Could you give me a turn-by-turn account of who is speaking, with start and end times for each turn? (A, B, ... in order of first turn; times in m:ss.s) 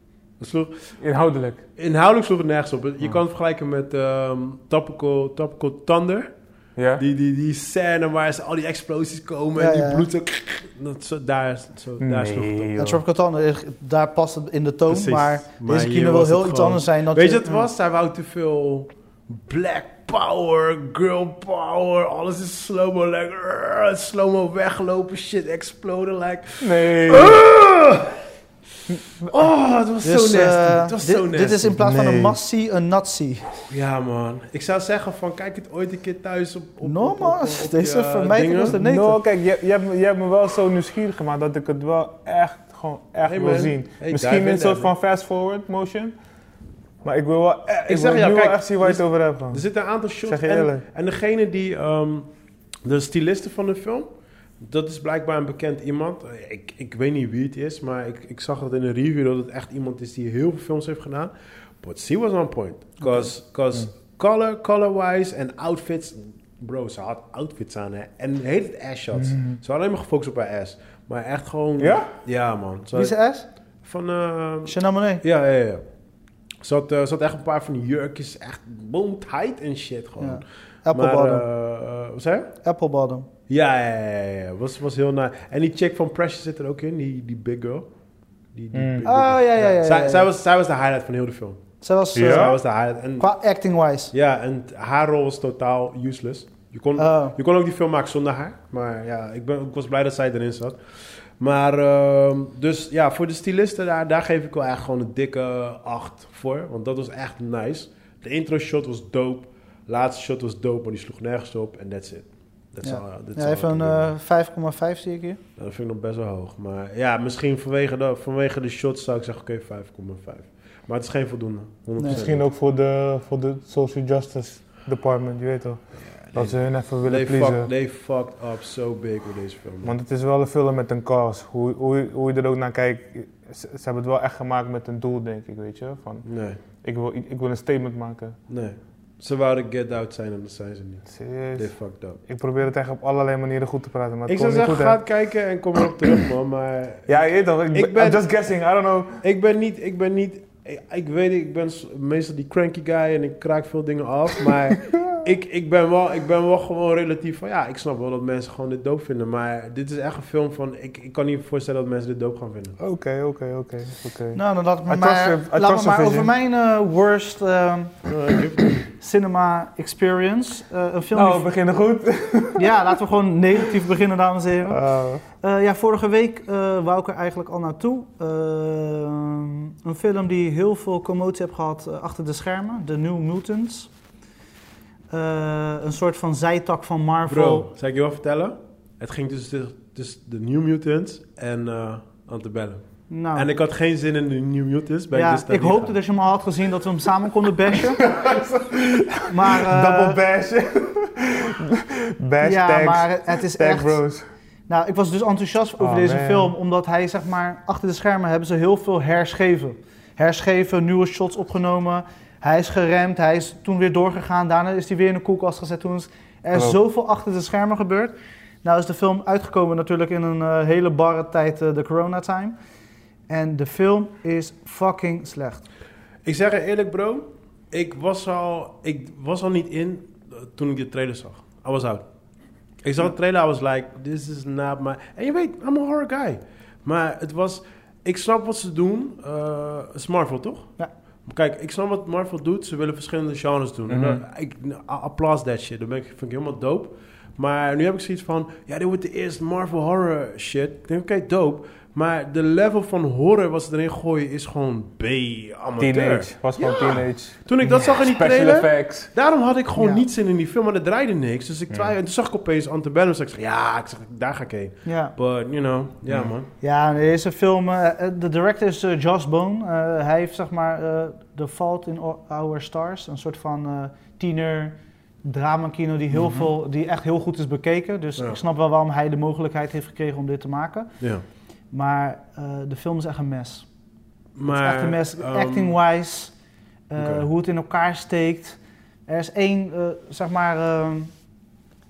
0:00.4-0:00.9 A
0:01.0-0:01.6 B
0:01.8-0:06.3 A
0:06.8-0:07.0 B
0:07.0-0:12.7 A
0:09.6-0:10.1 C
0:12.0-0:13.0 B
0:12.8-0:17.7 C
0:14.9-0:28.2 A
0:26.6-0:27.4 B
0:29.2-0:31.8 A
0:30.0-0:33.7 C
0:31.8-0:32.4 B
0:33.7-0:38.8 A
0:36.8-0:39.2 C
0:38.7-0:46.1 B
0:43.2-0:44.9 A
0:47.0-0:49.6 B
0:47.9-0:52.3 A
0:50.2-0:50.8 B
0:52.8-0:54.1 A
0:54.6-1:13.2 A
1:09.2-1:09.5 B
1:11.8-1:12.1 B
1:12.9-1:13.5 C
1:13.8-1:15.8 A
1:14.7-1:15.2 C
1:16.6-1:22.5 A
1:20.2-1:21.4 C
1:22.6-1:23.3 C
1:23.5-1:27.9 A
1:28.5-1:31.6 A
1:28.7-1:29.1 B
1:29.0-1:30.3 C
1:31.8-1:32.6 C
1:32.2-1:32.6 B
1:32.2-1:33.3 A
1:33.2-1:34.1 C
1:34.1-1:40.8 A
1:37.0-1:37.4 C
1:41.4-1:54.1 A
1:52.8-1:55.4 C
1:55.6-2:02.5 A
2:02.0-2:07.7 B
2:06.0-2:10.0 A
2:09.8-2:16.3 B
2:16.2-2:16.6 A
2:16.8-2:18.4 B
2:18.5-2:22.2 A
2:21.1-2:25.0 B
2:24.3-2:28.3 A
2:27.1-2:29.2 B
2:29.2-2:42.8 A
2:42.8-2:46.3 B
2:44.4-2:48.0 C
2:48.1-2:48.9 A
2:48.9-2:51.5 C
2:51.1-2:53.0 B
2:52.6-3:03.9 C
2:54.7-2:55.2 B
3:05.1-3:07.7 C
3:07.3-3:16.0 A
3:13.1-3:13.5 C
3:15.1-3:18.1 C
3:17.7-3:24.2 B
3:19.3-3:20.2 C
3:22.4-3:24.0 C
3:24.7-3:42.6 C
3:25.8-3:26.5 B
3:43.3-3:45.6 C
3:46.2-3:52.0 A
3:52.8-4:00.7 A
4:01.3-4:26.5 A
4:03.9-4:04.2 B
4:15.8-4:19.1 B
4:19.8-4:20.0 C
4:24.8-4:25.2 C
4:26.6-4:40.9 C
4:36.1-4:36.5 A
4:41.7-4:43.7 C
4:44.4-4:45.8 A
4:44.5-4:46.3 C
4:46.9-4:51.1 C
4:47.0-4:47.2 A